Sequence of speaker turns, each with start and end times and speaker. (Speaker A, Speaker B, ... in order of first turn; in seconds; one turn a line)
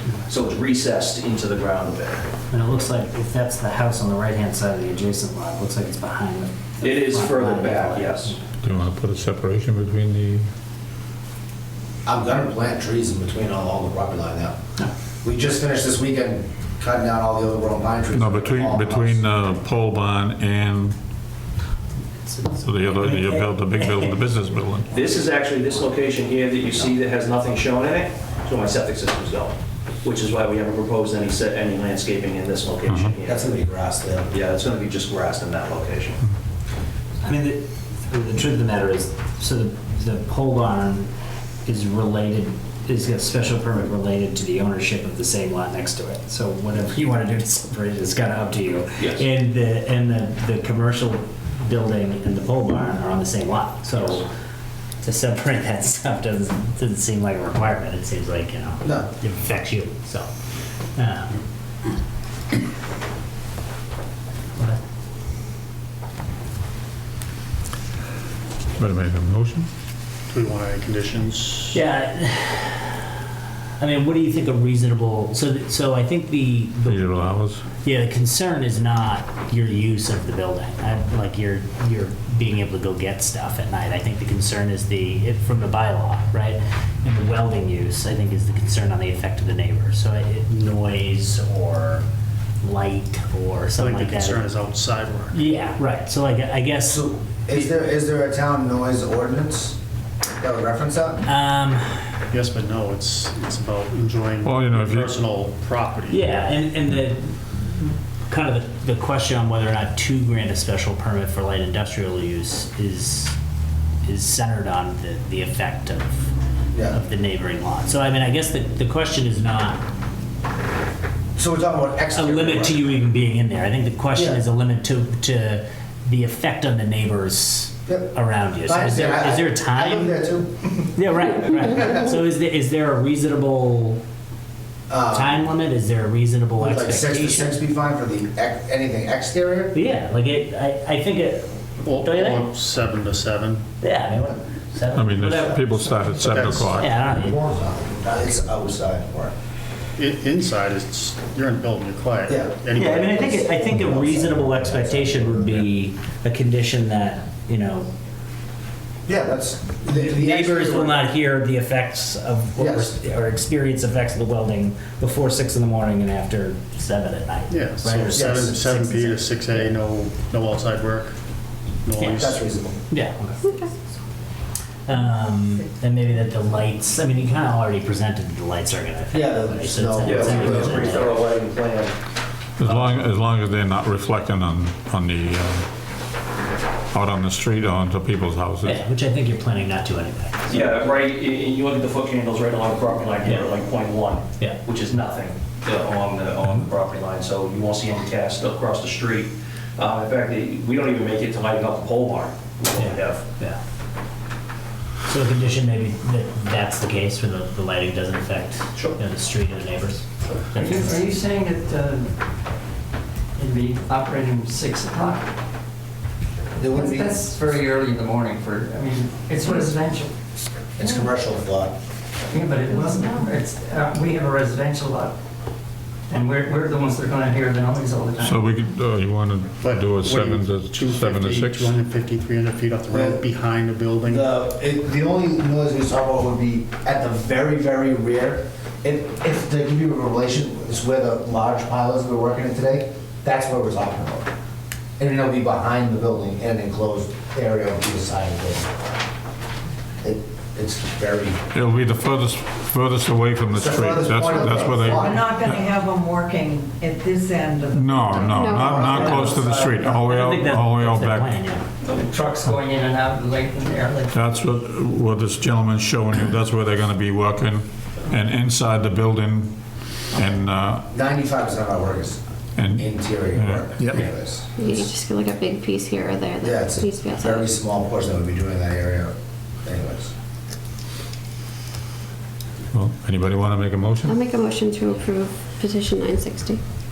Speaker A: 0.2-2.3
Speaker B: 2.5-8.5
Speaker A: 6.8-8.3
Speaker C: 8.6-10.4
Speaker D: 12.0-14.6
Speaker D: 15.2-19.2
Speaker C: 18.1-20.9
Speaker B: 22.1-24.2
Speaker C: 22.6-24.9
Speaker A: 24.9-33.5
Speaker C: 32.9-33.1
Speaker D: 33.2-34.3
Speaker A: 34.3-36.2
Speaker B: 37.2-41.1
Speaker B: 41.6-54.3
Speaker A: 49.0-49.2
Speaker B: 55.0-60.3
Speaker D: 58.8-59.1
Speaker B: 61.0-61.4
Speaker C: 68.8-69.7
Speaker E: 70.3-71.8
Speaker B: 71.7-73.0
Speaker B: 73.8-92.0
Speaker C: 76.9-77.7
Speaker B: 92.6-94.5
Speaker E: 93.8-95.3
Speaker B: 95.3-97.8
Speaker D: 96.8-99.8
Speaker D: 100.4-101.2
Speaker B: 101.2-102.0
Speaker E: 102.3-106.3
Speaker C: 104.4-105.1
Speaker B: 106.1-113.3
Speaker B: 114.0-116.3
Speaker D: 116.7-117.0
Speaker B: 116.9-119.8
Speaker D: 121.3-122.8
Speaker B: 122.1-134.0
Speaker D: 127.8-130.5
Speaker D: 134.9-135.4
Speaker B: 135.1-137.6
Speaker D: 136.6-139.7
Speaker B: 139.7-142.5
Speaker E: 141.8-143.7
Speaker B: 143.8-147.6
Speaker C: 144.9-147.0
Speaker E: 146.1-146.8
Speaker D: 147.1-149.3
Speaker E: 150.0-153.3
Speaker D: 152.3-152.6
Speaker B: 152.7-157.9
Speaker D: 153.3-155.6
Speaker D: 159.1-161.0
Speaker B: 159.8-169.7
Speaker D: 162.6-162.9
Speaker E: 167.5-171.2
Speaker D: 168.1-168.5
Speaker E: 171.8-172.4
Speaker B: 172.0-172.3
Speaker D: 172.1-172.8
Speaker B: 172.9-173.4
Speaker F: 173.4-173.7
Speaker B: 174.9-181.1
Speaker D: 179.1-180.8
Speaker A: 180.0-181.9
Speaker C: 180.4-180.7
Speaker C: 182.6-185.6
Speaker C: 186.9-188.8
Speaker B: 188.6-190.9
Speaker A: 190.5-203.2
Speaker B: 202.8-203.6
Speaker B: 205.1-210.0
Speaker G: 210.5-212.1
Speaker B: 210.5-211.0
Speaker G: 213.4-215.3
Speaker D: 216.6-217.5
Speaker G: 216.7-220.1
Speaker D: 220.8-221.7
Speaker G: 222.3-225.1
Speaker F: 222.7-223.2
Speaker G: 226.1-228.4
Speaker C: 228.2-231.8
Speaker E: 229.6-234.3
Speaker D: 232.9-233.2
Speaker D: 234.1-244.3
Speaker D: 245.0-248.7
Speaker D: 250.0-251.4
Speaker C: 251.5-255.7
Speaker D: 253.5-255.4
Speaker H: 254.4-258.3
Speaker C: 257.7-261.3
Speaker F: 258.3-259.1
Speaker D: 258.5-260.1
Speaker B: 258.9-259.4
Speaker B: 260.1-261.6
Speaker G: 261.8-264.1
Speaker C: 264.1-269.5
Speaker C: 270.1-270.8
Speaker D: 270.9-272.2
Speaker C: 272.6-274.0
Speaker D: 272.7-274.9
Speaker F: 274.6-277.5
Speaker D: 276.4-280.1
Speaker C: 282.7-284.1
Speaker F: 284.0-286.6